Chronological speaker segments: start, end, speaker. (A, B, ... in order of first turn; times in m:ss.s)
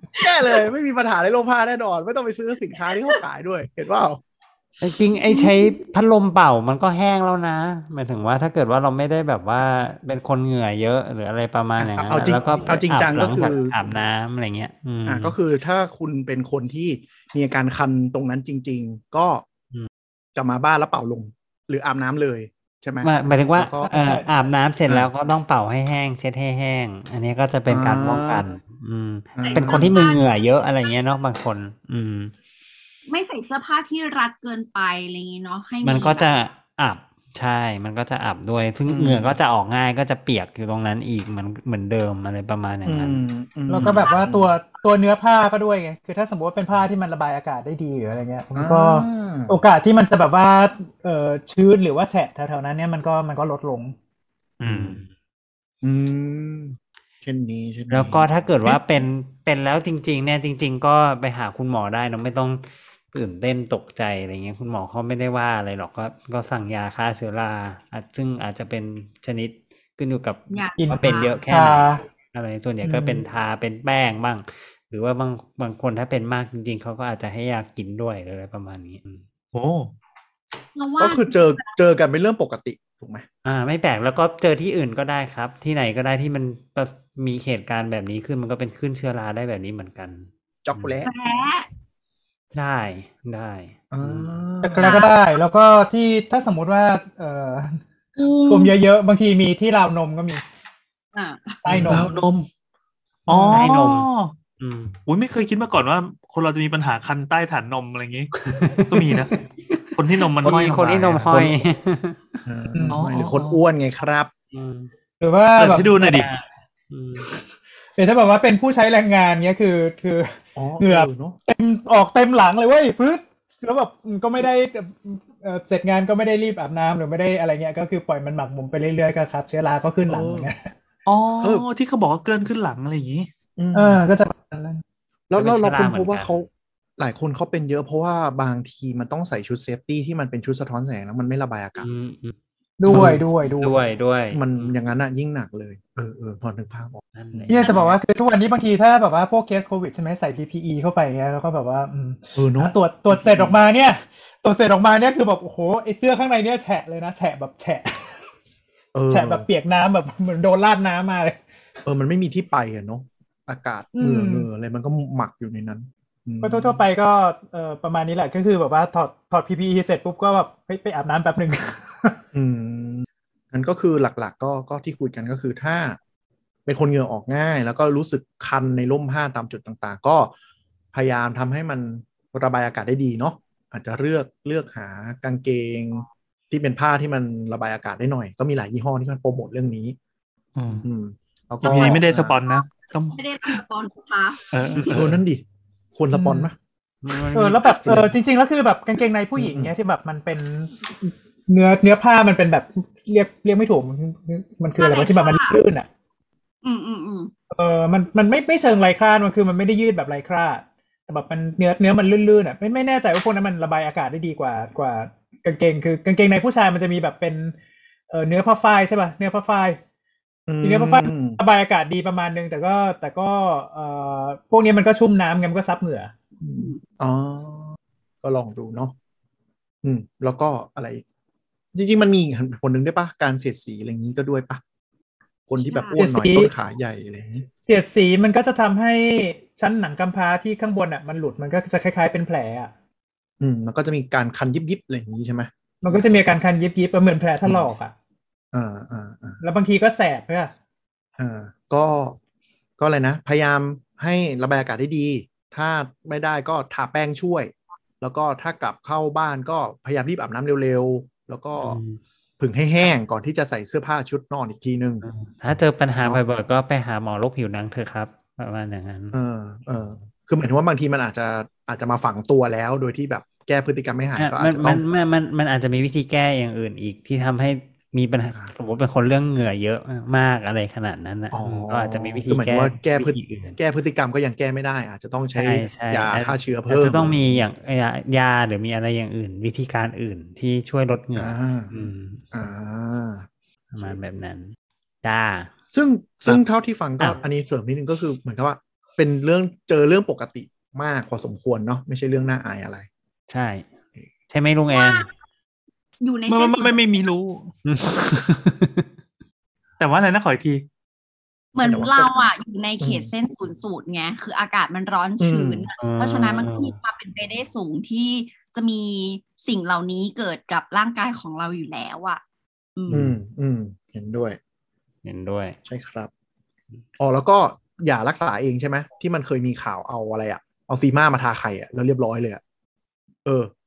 0:00.2-0:04.2 A
0:04.8-0:15.3 B
0:11.8-0:13.8 A
0:15.1-0:19.4 A
0:20.4-0:23.9 A
0:23.0-0:32.3 B
0:23.8-0:24.3 C
0:27.7-0:28.4 A
0:29.4-0:30.0 A
0:29.4-0:30.2 D
0:33.1-0:36.4 D
0:35.8-0:43.2 B
0:38.9-0:39.3 A
0:42.8-0:44.5 A
0:43.7-0:54.0 C
0:43.8-0:44.2 D
0:48.6-0:49.6 A
0:54.6-0:55.1 B
0:54.6-0:55.0 A
0:55.8-0:58.8 A
0:57.9-1:19.2 B
1:10.7-1:11.4 D
1:10.8-1:12.0 C
1:12.8-1:13.2 C
1:19.5-1:19.9 E
1:20.8-1:21.4 D
1:21.0-1:23.3 A
1:23.4-1:31.0 B
1:30.6-1:31.1 A
1:31.1-1:31.7 D
1:32.5-1:34.4 B
1:33.9-1:34.9 A
1:34.6-1:37.8 C
1:34.8-1:35.1 D
1:38.2-1:38.8 D
1:38.5-1:40.4 C
1:41.1-1:41.6 D
1:41.6-1:42.2 C
1:41.7-1:42.5 A
1:41.8-1:42.1 B
1:43.3-1:43.6 A
1:43.3-1:44.4 E
1:43.5-1:45.0 B
1:45.1-1:48.3 E
1:48.3-1:52.4 B
1:50.0-1:51.2 E
1:51.2-1:51.6 A
1:52.5-1:54.3 A
1:52.7-1:53.0 C
1:54.5-1:54.9 B
1:55.2-1:56.0 C
1:55.8-1:57.3 B
1:57.2-2:10.7 C
2:00.6-2:01.4 A
2:10.1-2:10.5 A
2:11.1-2:13.3 E
2:13.6-2:14.0 A
2:13.7-2:14.8 C
2:15.3-2:16.5 A
2:15.4-2:16.5 B
2:17.0-2:21.9 A
2:21.8-2:22.4 B
2:22.8-2:23.8 C
2:22.9-2:24.8 B
2:22.9-2:23.2 A
2:24.3-2:27.7 A
2:27.2-2:28.0 B
2:27.5-2:38.2 C
2:32.4-2:33.6 A
2:38.9-2:39.5 A
2:39.1-2:41.4 C
2:41.8-2:46.8 A
2:44.0-2:44.5 C
2:46.4-2:52.2 C
2:52.3-2:56.0 A
2:56.7-3:00.3 A
3:00.9-3:10.0 A
3:10.6-3:10.9 E
3:10.8-3:12.4 A
3:11.7-3:13.6 E
3:13.2-3:14.4 D
3:14.5-3:14.8 E
3:14.7-3:15.1 B
3:14.9-3:15.4 A
3:16.0-3:16.6 A
3:16.1-3:16.5 C
3:17.0-3:18.0 B
3:17.3-3:25.9 C
3:19.4-3:19.7 A
3:24.8-3:25.6 D
3:26.6-3:27.3 D
3:27.5-3:37.6 C
3:38.1-3:39.8 C
3:40.5-3:41.4 A
3:40.6-3:46.1 C
3:46.4-3:48.9 A
3:49.8-3:51.0 A
3:51.7-3:54.6 A
3:55.5-3:57.5 A
3:55.6-3:56.0 D
3:56.0-3:56.5 C
3:57.7-4:02.7 C
4:03.4-4:06.2 A
4:05.8-4:07.9 C
4:07.4-4:07.7 A
4:08.5-4:09.4 A
4:09.4-4:10.5 C
4:11.2-4:12.2 A
4:12.8-4:21.8 A
4:21.6-4:22.0 B
4:22.4-4:25.0 A
4:25.0-4:29.2 B
4:29.1-4:34.8 A
4:34.2-4:43.6 B
4:41.3-4:47.4 A
4:45.4-4:52.5 B
4:51.2-4:51.7 A
4:52.3-4:53.3 A
4:53.7-4:54.5 B
4:55.0-4:55.5 B
4:55.7-5:02.9 A
5:03.3-5:03.7 B
5:04.3-5:05.1 B
5:04.7-5:05.1 D
5:06.0-5:06.8 D
5:06.3-5:07.5 E
5:07.6-5:08.9 B
5:09.8-5:10.6 E
5:11.6-5:22.2 D
5:11.6-5:12.3 A
5:12.8-5:13.1 A
5:15.2-5:15.7 A
5:15.8-5:16.8 B
5:22.8-5:23.2 D
5:22.9-5:24.4 A
5:25.0-5:25.6 B
5:25.7-5:26.1 A
5:27.0-5:32.4 A
5:33.2-5:33.5 A